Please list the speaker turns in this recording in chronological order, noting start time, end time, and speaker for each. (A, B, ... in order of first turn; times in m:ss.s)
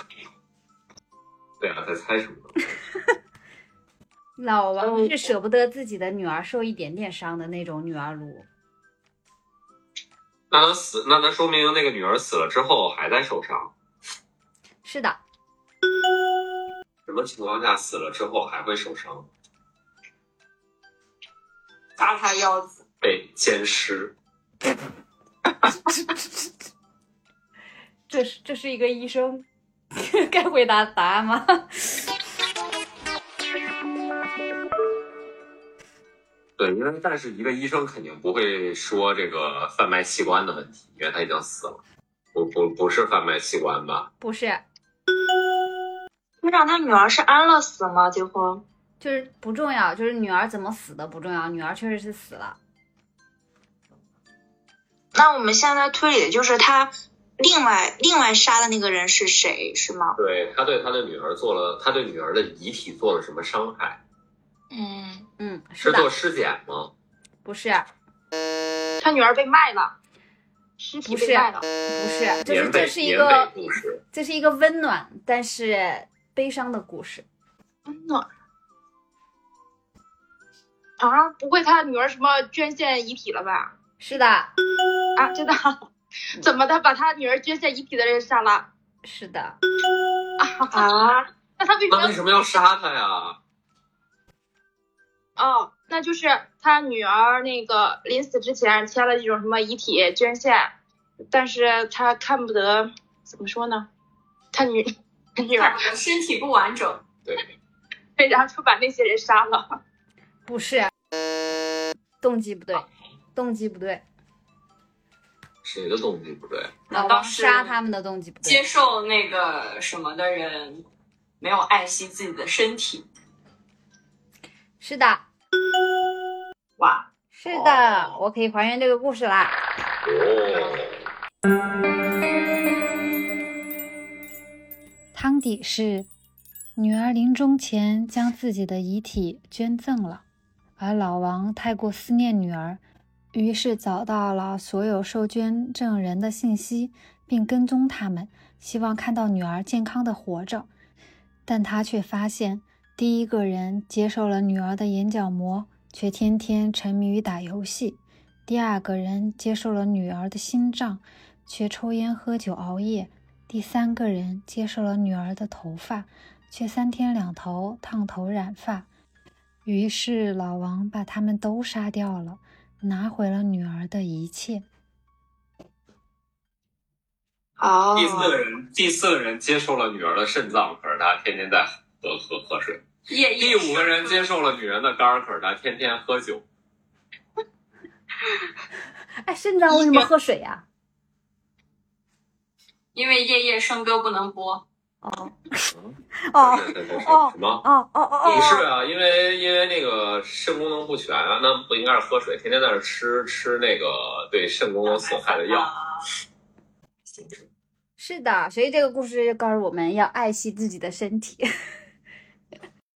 0:01.6-0:02.5 A
0:04.4-0:08.4 B
0:04.8-0:05.1 C
0:10.5-0:13.7 A
0:14.8-0:15.2 B
0:17.0-0:19.3 A
0:22.0-0:22.7 D
0:23.0-0:24.1 A
0:25.9-0:26.5 B
0:28.1-0:29.4 B
0:30.0-0:32.0 B
0:36.6-0:41.8 A
0:42.3-0:44.1 A
0:44.2-0:44.6 B
0:46.4-0:48.6 C
0:49.0-0:52.6 B
0:55.1-1:00.2 C
1:00.2-1:04.0 A
1:04.7-1:05.2 C
1:05.4-1:06.1 B
1:05.8-1:06.9 A
1:07.4-1:07.8 B
1:09.0-1:09.9 E
1:10.8-1:11.6 E
1:11.0-1:13.5 B
1:12.4-1:14.0 A
1:14.1-1:17.2 B
1:17.9-1:18.2 E
1:21.0-1:23.7 E
1:24.0-1:24.5 B
1:25.2-1:25.8 E
1:26.4-1:28.7 E
1:29.0-1:29.6 B
1:30.4-1:32.1 E
1:30.7-1:31.0 C
1:31.9-1:33.4 A
1:35.4-1:40.7 E
1:41.3-1:43.9 E
1:44.5-1:45.8 E
1:45.6-1:47.0 D
1:48.2-1:49.8 E
1:50.4-1:50.9 B
1:52.2-1:54.0 B
1:55.6-1:56.8 A
1:56.9-1:57.8 D
1:56.9-1:58.6 B
1:58.4-2:00.8 D
2:01.4-2:03.0 D
2:04.8-2:05.2 B
2:06.8-2:07.1 D
2:07.3-2:09.6 B
2:07.5-2:08.1 A
2:10.0-2:11.0 A
2:15.1-2:16.1 F
2:16.7-2:20.2 F
2:20.8-2:22.8 F
2:23.3-2:30.7 F
2:31.5-2:48.9 F
2:49.6-2:54.6 F
2:57.6-2:58.4 C
2:57.9-3:02.8 A
3:03.1-3:04.2 D
3:03.4-3:06.4 A
3:09.2-3:10.6 B
3:09.7-3:10.0 E
3:12.9-3:14.6 D
3:15.0-3:15.7 B
3:15.7-3:17.6 A
3:16.3-3:18.6 B
3:18.2-3:25.7 A
3:24.8-3:26.0 D
3:27.0-3:27.5 A
3:28.0-3:31.4 B